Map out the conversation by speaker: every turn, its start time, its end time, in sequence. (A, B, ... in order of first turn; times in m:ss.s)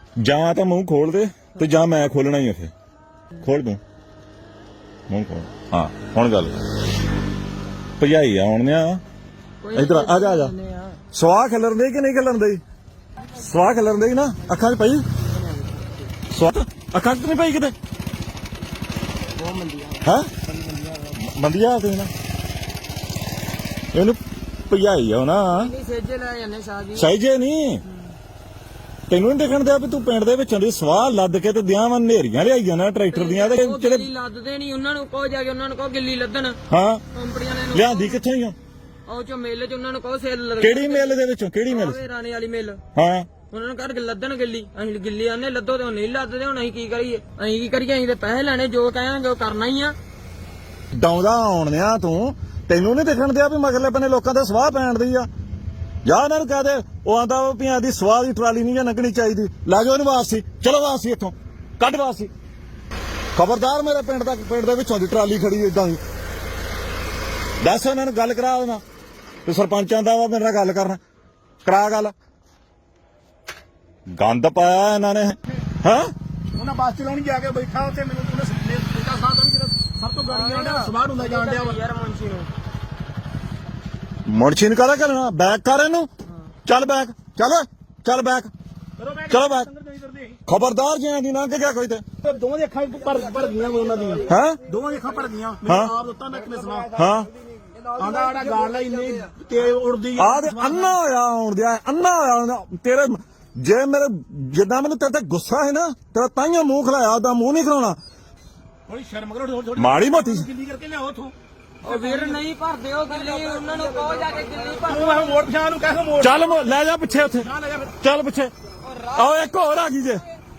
0:00.2-0:02.7 A
0:03.4-0:03.8 A
0:05.1-0:06.6 A
0:08.0-0:09.0 A
0:09.6-0:11.0 B
0:09.7-0:10.5 A
0:11.1-0:12.6 A
0:13.4-0:15.0 A
0:15.4-0:15.8 B
0:16.3-0:17.7 A
0:19.4-0:20.1 B
0:20.0-0:20.3 A
0:21.1-0:22.1 A
0:23.9-0:25.7 A
0:25.5-0:27.1 B
0:27.0-0:27.8 A
0:29.1-0:34.1 A
0:33.1-0:36.6 B
0:36.7-0:37.0 A
0:37.1-0:38.2 B
0:37.7-0:38.6 A
0:39.1-0:42.8 B
0:40.6-0:42.0 A
0:43.0-0:43.3 A
0:43.5-0:50.0 B
0:50.9-0:55.3 A
0:56.1-1:02.3 A
1:03.4-1:06.0 A
1:07.6-1:08.8 A
1:09.5-1:11.0 A
1:11.6-1:12.1 A
1:14.2-1:16.1 A
1:16.5-1:21.8 C
1:20.3-1:22.5 B
1:24.3-1:26.1 A
1:26.7-1:28.5 A
1:29.0-1:30.4 C
1:29.3-1:29.7 A
1:30.5-1:32.0 A
1:32.2-1:37.0 C
1:34.3-1:34.6 A
1:35.7-1:35.9 A
1:37.0-1:37.3 A
1:38.0-1:41.0 C
1:40.2-1:48.0 A
1:48.9-1:52.4 C
1:49.8-1:50.5 A
1:51.8-1:55.4 B
1:54.8-1:56.6 C
1:56.2-1:57.5 A
1:57.4-1:58.0 C
1:58.0-1:58.5 A
1:58.8-1:59.6 B
1:59.2-2:00.2 A